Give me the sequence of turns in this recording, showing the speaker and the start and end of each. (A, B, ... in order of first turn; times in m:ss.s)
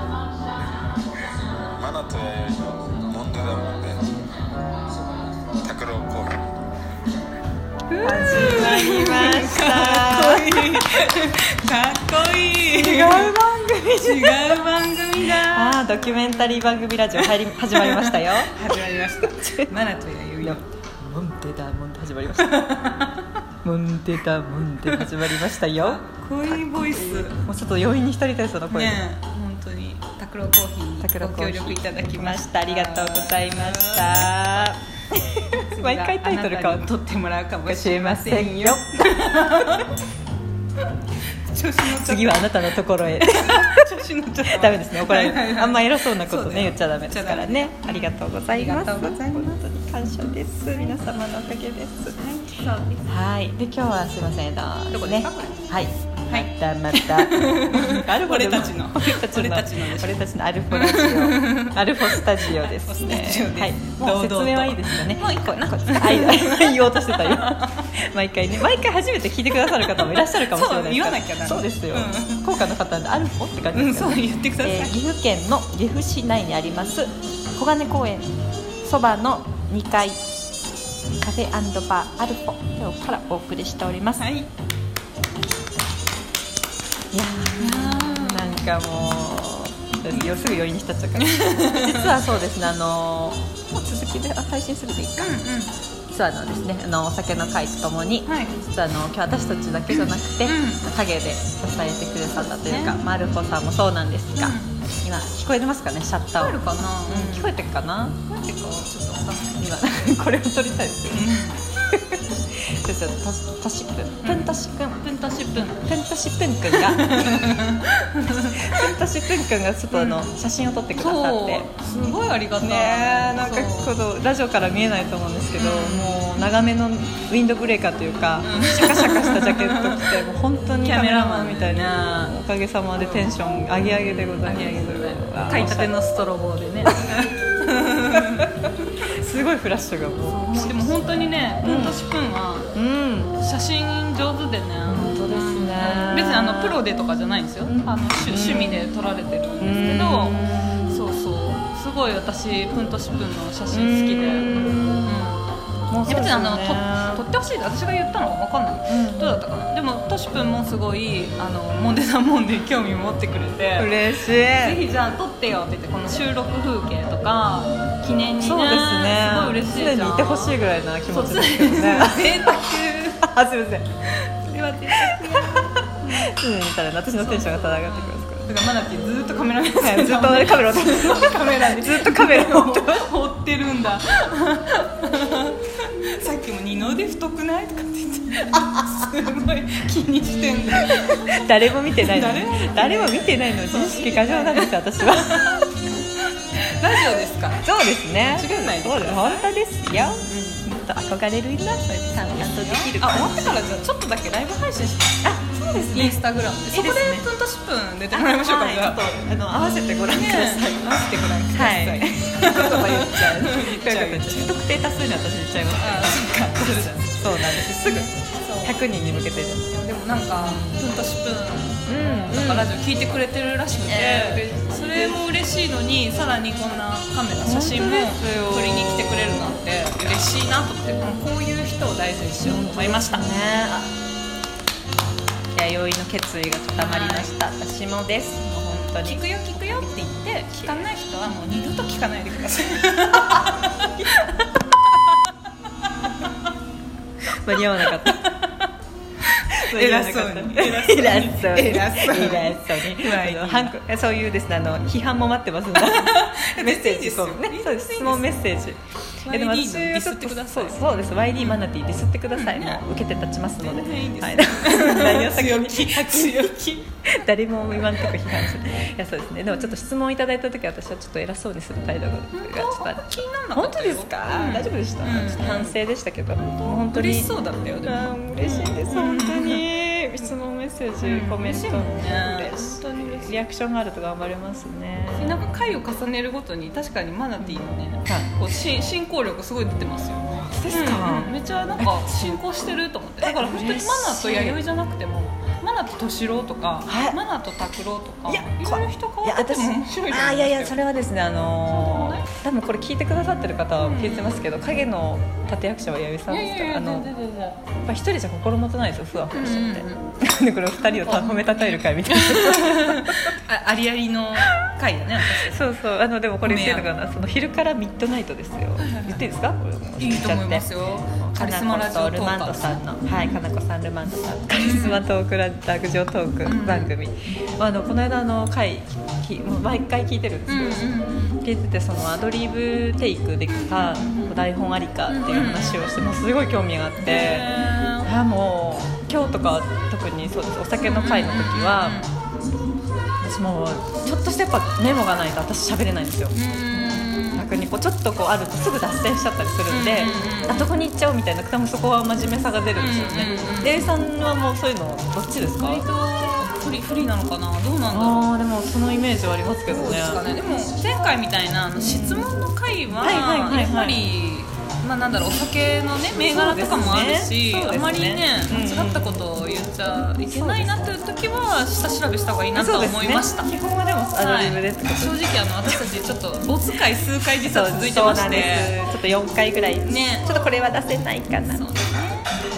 0:01.8-0:04.2 A
0:05.6-0:06.4 A
0:07.9-0:13.4 B
0:08.0-0:11.2 C
0:12.6-0:14.6 C
0:14.0-0:20.6 B
0:15.3-0:18.6 C
0:19.3-0:19.7 C
0:20.4-0:22.8 C
0:22.4-0:23.3 B
0:23.6-0:29.0 C
0:24.9-0:27.4 B
0:28.7-0:34.7 B
0:31.0-0:36.9 C
0:35.5-0:40.0 B
0:37.7-0:39.5 C
0:41.5-0:42.6 B
0:41.8-0:43.9 C
0:43.2-0:49.5 B
0:44.5-0:52.2 C
0:50.7-0:51.0 B
0:52.1-0:53.1 B
0:53.1-1:20.2 C
0:54.9-1:00.2 B
1:00.7-1:07.9 B
1:09.8-1:12.5 B
1:13.7-1:15.0 B
1:21.2-1:24.2 C
1:24.2-1:24.5 B
1:27.1-1:35.4 C
1:27.6-1:28.6 B
1:31.2-1:32.1 B
1:35.2-1:35.7 B
1:36.1-1:48.2 C
1:38.3-1:38.6 B
1:40.4-1:40.9 B
1:42.4-1:43.0 B
1:44.4-1:44.8 B
1:46.4-1:47.6 B
1:48.3-1:49.6 B
1:49.6-1:51.3 C
1:51.1-1:51.6 B
1:51.8-1:57.6 C
1:54.2-1:55.8 B
1:56.7-1:58.9 B
1:58.6-2:01.7 C
1:59.9-2:00.3 B
2:01.0-2:03.9 B
2:02.6-2:15.9 C
2:05.6-2:06.2 B
2:08.4-2:10.1 B
2:10.8-2:12.3 B
2:13.9-2:18.7 B
2:18.2-2:21.1 C
2:20.3-2:22.7 B
2:21.6-2:22.0 C
2:22.7-2:23.3 C
2:23.4-2:35.4 B
2:24.9-2:26.8 C
2:27.6-2:28.9 C
2:29.6-2:31.0 C
2:33.7-2:35.3 C
2:35.9-2:37.3 C
2:36.1-2:53.3 B
2:38.9-2:39.4 C
2:43.8-2:44.8 C
2:48.4-2:52.6 C
2:53.2-2:53.9 C
2:54.2-2:56.3 B
2:54.5-2:58.5 C
2:57.1-3:15.6 B
2:59.8-3:03.1 C
3:10.9-3:15.7 C
3:16.6-3:17.7 B
3:17.6-3:23.6 C
3:18.2-3:19.5 B
3:20.1-3:20.6 B
3:22.2-3:29.1 B
3:25.2-3:27.3 C
3:28.1-3:39.7 C
3:30.1-3:34.5 B
3:35.7-3:38.8 B
3:39.7-3:53.3 B
3:40.3-3:40.9 C
3:41.9-3:42.7 C
3:43.8-3:45.2 C
3:47.4-3:49.6 C
3:52.4-3:53.9 C
3:55.6-4:00.0 C
3:56.7-3:57.3 B
3:58.8-4:05.9 B
4:07.3-4:08.3 C
4:07.5-4:08.7 B
4:09.2-4:13.8 B
4:09.5-4:37.3 C
4:15.8-4:18.3 B
4:19.2-4:21.6 B
4:22.3-4:22.8 B
4:23.6-4:26.8 B
4:32.3-4:35.8 B
4:36.6-4:39.7 B
4:37.8-4:45.5 C
4:41.0-4:43.3 B
4:45.2-5:00.8 B
4:47.4-4:48.3 C
4:50.4-4:52.4 C
4:53.2-4:54.6 C
4:56.9-4:57.2 C
4:58.3-5:13.4 C
5:01.7-5:02.3 B
5:03.8-5:04.4 B
5:06.3-5:07.6 B
5:09.3-5:10.0 B
5:11.0-5:15.6 B
5:15.2-5:42.0 C
5:16.4-5:16.9 B
5:18.8-5:19.2 B
5:20.0-5:23.5 B
5:24.5-5:25.0 B
5:26.4-5:26.9 B
5:30.5-5:31.4 B
5:33.5-5:34.4 B
5:35.1-5:35.9 B
5:37.0-5:38.1 B
5:40.8-5:42.1 B
5:43.2-5:55.8 C
5:46.3-5:47.5 B
5:49.7-5:50.7 B
5:52.8-5:53.9 B
5:55.6-5:58.3 B
5:57.9-6:00.2 C
5:59.7-6:13.5 B
6:01.8-6:02.3 C
6:03.0-6:04.0 C
6:06.2-6:09.2 C
6:10.3-6:10.9 C
6:12.5-6:15.2 C
6:14.2-6:18.8 B
6:17.4-6:21.8 C
6:19.8-6:20.4 B
6:21.5-6:22.3 B